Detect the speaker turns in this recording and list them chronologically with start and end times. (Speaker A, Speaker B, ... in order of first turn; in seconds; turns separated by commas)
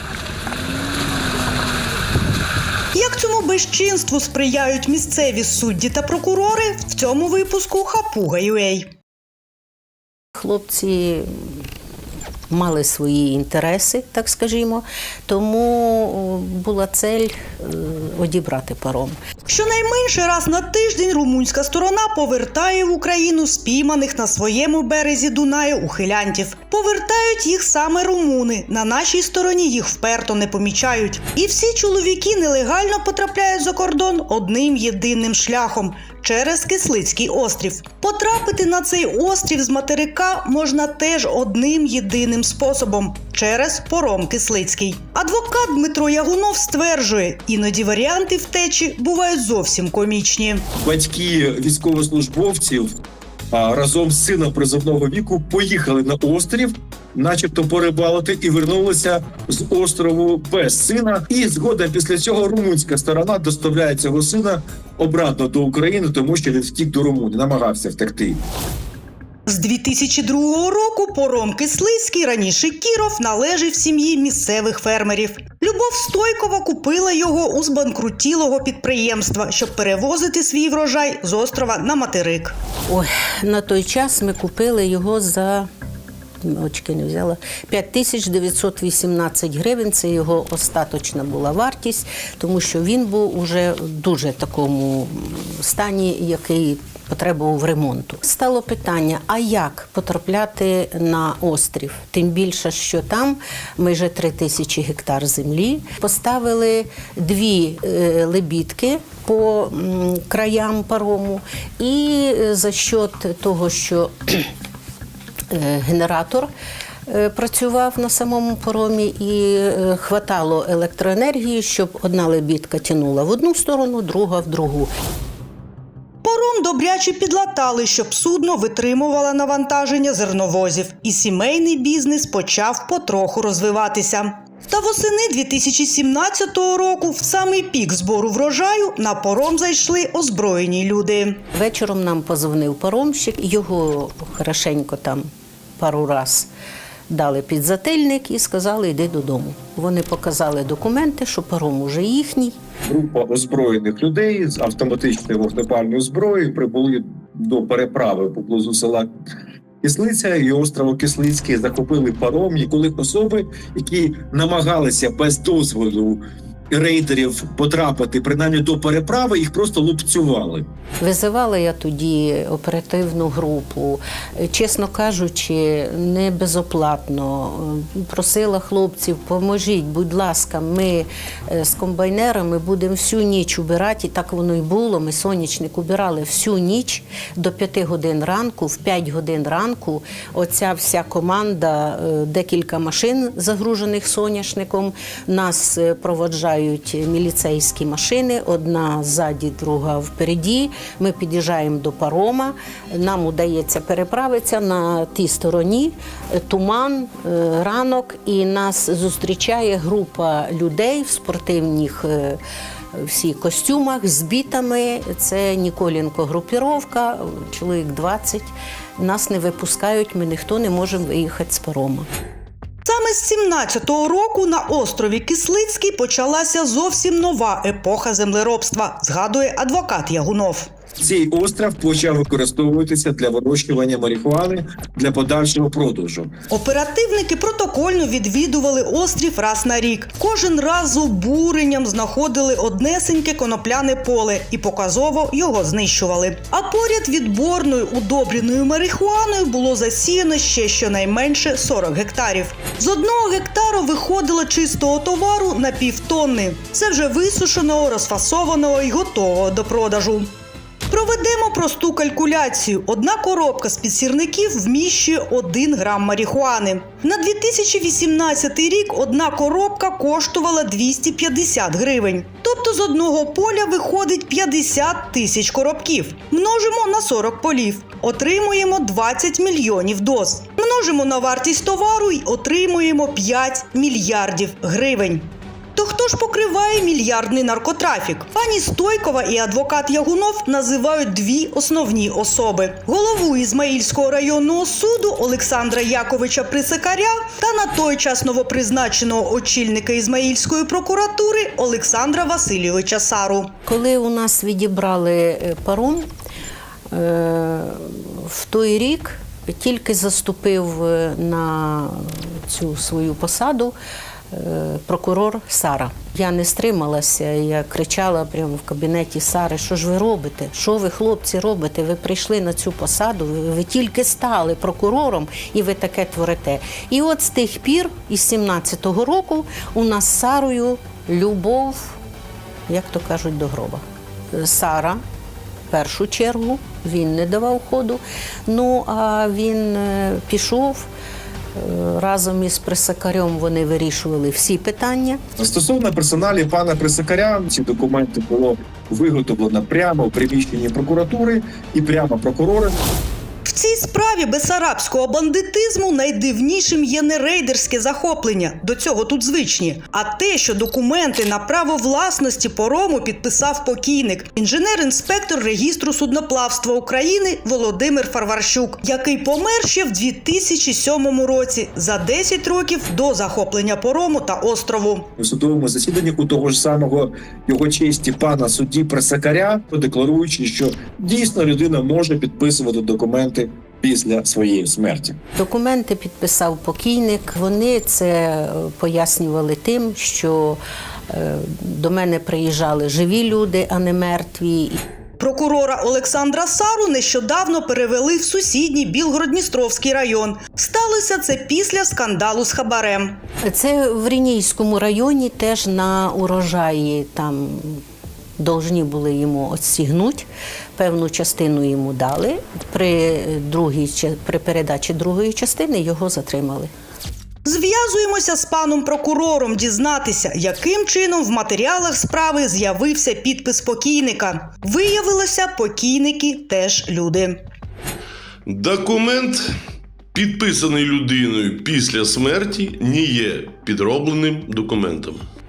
Speaker A: 2.9-8.9, Speaker B: 10.4-11.7, Speaker B: 12.5-19.1, Speaker A: 19.5-50.6, Speaker C: 50.8-52.9, Speaker C: 53.5-68.4, Speaker A: 69.5-82.5, Speaker B: 82.9-85.7, Speaker B: 86.4-114.5, Speaker B: 115.5-116.5, Speaker B: 117.1-124.9, Speaker A: 126.2-141.4, Speaker B: 141.5-145.3, Speaker B: 145.8-146.5, Speaker B: 147.1-152.6, Speaker C: 152.9-159.1, Speaker C: 159.8-170.7, Speaker B: 171.0-212.4, Speaker B: 212.9-222.1, Speaker A: 222.8-230.7, Speaker C: 231.0-236.3, Speaker A: 236.5-260.3, Speaker A: 260.9-303.5, Speaker B: 303.7-306.1, Speaker B: 306.9-313.8, Speaker B: 314.3-332.0, Speaker B: 332.7-335.0, Speaker B: 335.7-340.9, Speaker B: 341.5-345.2, Speaker C: 345.4-352.8, Speaker A: 353.4-375.1, Speaker C: 375.2-385.2, Speaker B: 385.4-394.8, Speaker A: 395.2-403.2, Speaker B: 403.4-407.8, Speaker B: 408.4-416.7, Speaker A: 417.4-427.4, Speaker D: 428.5-429.5, Speaker D: 430.1-435.2